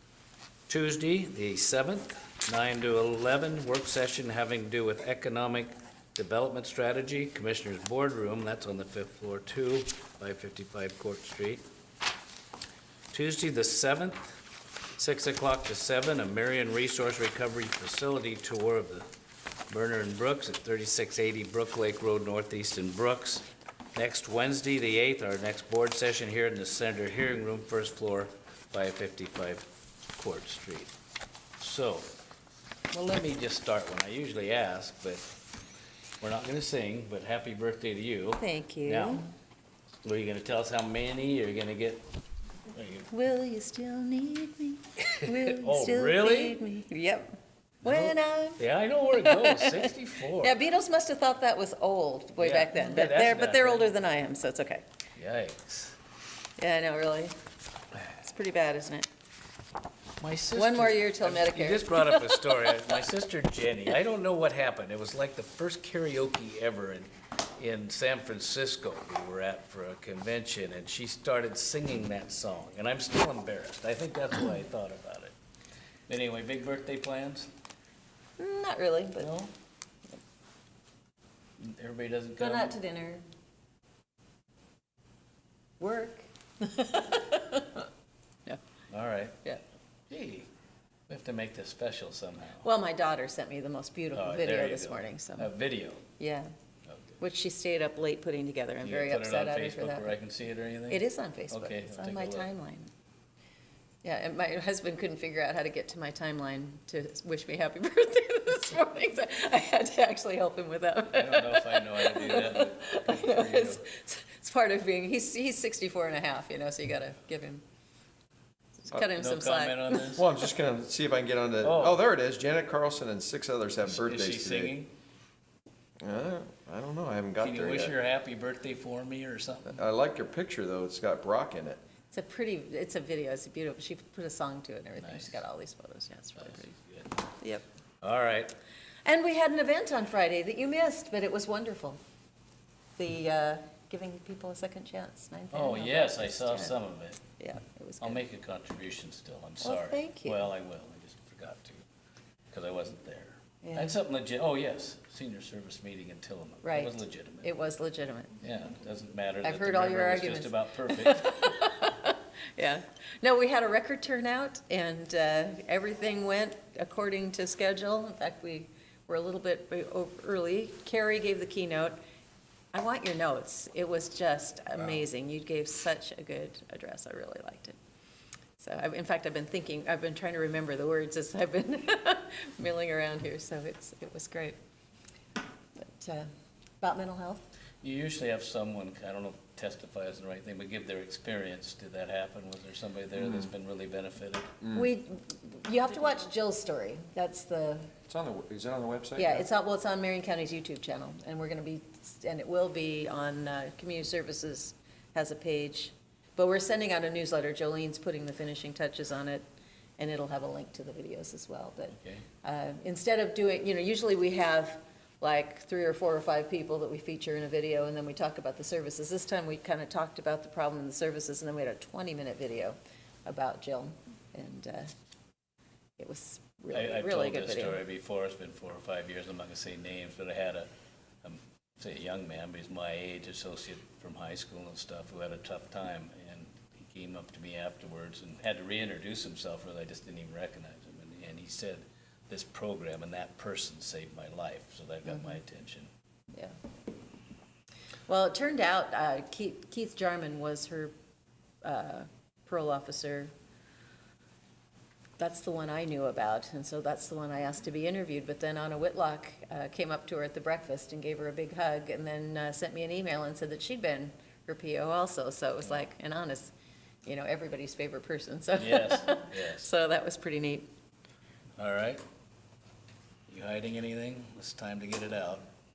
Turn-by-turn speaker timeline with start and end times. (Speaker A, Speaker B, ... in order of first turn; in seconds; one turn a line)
Speaker A: 0.7-11.6
Speaker A: 13.1-14.4
Speaker A: 14.9-19.1
Speaker A: 19.7-30.9
Speaker A: 31.6-32.1
Speaker A: 32.9-35.3
Speaker A: 36.2-39.2
Speaker B: 38.4-39.2
Speaker A: 40.0-42.1
Speaker A: 42.7-43.1
Speaker B: 43.1-47.3
Speaker A: 45.0-46.6
Speaker B: 47.8-48.6
Speaker A: 47.8-50.6
Speaker B: 49.1-54.8
Speaker A: 52.4-53.9
Speaker A: 55.2-56.0
Speaker B: 56.6-57.4
Speaker B: 58.2-59.1
Speaker A: 60.2-75.3
Speaker B: 60.5-62.8
Speaker A: 76.1-77.5
Speaker B: 78.4-79.3
Speaker A: 79.2-79.5
Speaker A: 81.6-82.8
Speaker B: 82.4-83.2
Speaker B: 85.8-87.9
Speaker A: 88.9-89.4
Speaker A: 90.1-90.5
Speaker A: 91.1-92.7
Speaker B: 92.6-95.5
Speaker A: 94.1-96.0
Speaker B: 96.2-96.5
Speaker A: 96.9-97.2
Speaker B: 97.2-100.1
Speaker A: 98.8-102.5
Speaker B: 100.9-102.9
Speaker B: 104.0-117.6
Speaker A: 111.1-113.8
Speaker B: 118.8-120.2
Speaker A: 119.0-120.2
Speaker C: 120.1-124.7
Speaker A: 121.6-122.0
Speaker A: 123.9-124.9
Speaker C: 126.0-128.0
Speaker A: 127.4-129.8
Speaker C: 129.8-131.8
Speaker B: 132.1-136.8
Speaker A: 135.0-135.4
Speaker A: 136.4-137.2
Speaker A: 138.0-138.6
Speaker B: 139.1-142.0
Speaker B: 143.0-146.8
Speaker A: 145.5-147.2
Speaker B: 147.4-148.2
Speaker A: 148.0-151.8
Speaker B: 149.6-150.4
Speaker A: 152.5-157.5
Speaker B: 153.6-153.9
Speaker B: 156.6-158.3
Speaker A: 158.4-161.8
Speaker B: 159.4-172.0
Speaker B: 172.7-177.8
Speaker B: 178.6-184.6
Speaker B: 185.8-186.3
Speaker B: 186.8-187.4
Speaker A: 187.8-194.5
Speaker B: 194.7-197.9
Speaker C: 198.1-199.4
Speaker B: 199.2-209.5
Speaker B: 210.0-224.9
Speaker B: 226.0-227.8
Speaker A: 226.7-230.7
Speaker A: 231.2-245.9
Speaker B: 245.1-245.4
Speaker B: 248.1-250.9
Speaker B: 251.6-253.3
Speaker B: 255.2-266.5
Speaker B: 267.1-270.7
Speaker A: 268.6-269.7
Speaker A: 271.6-272.0
Speaker A: 273.3-275.5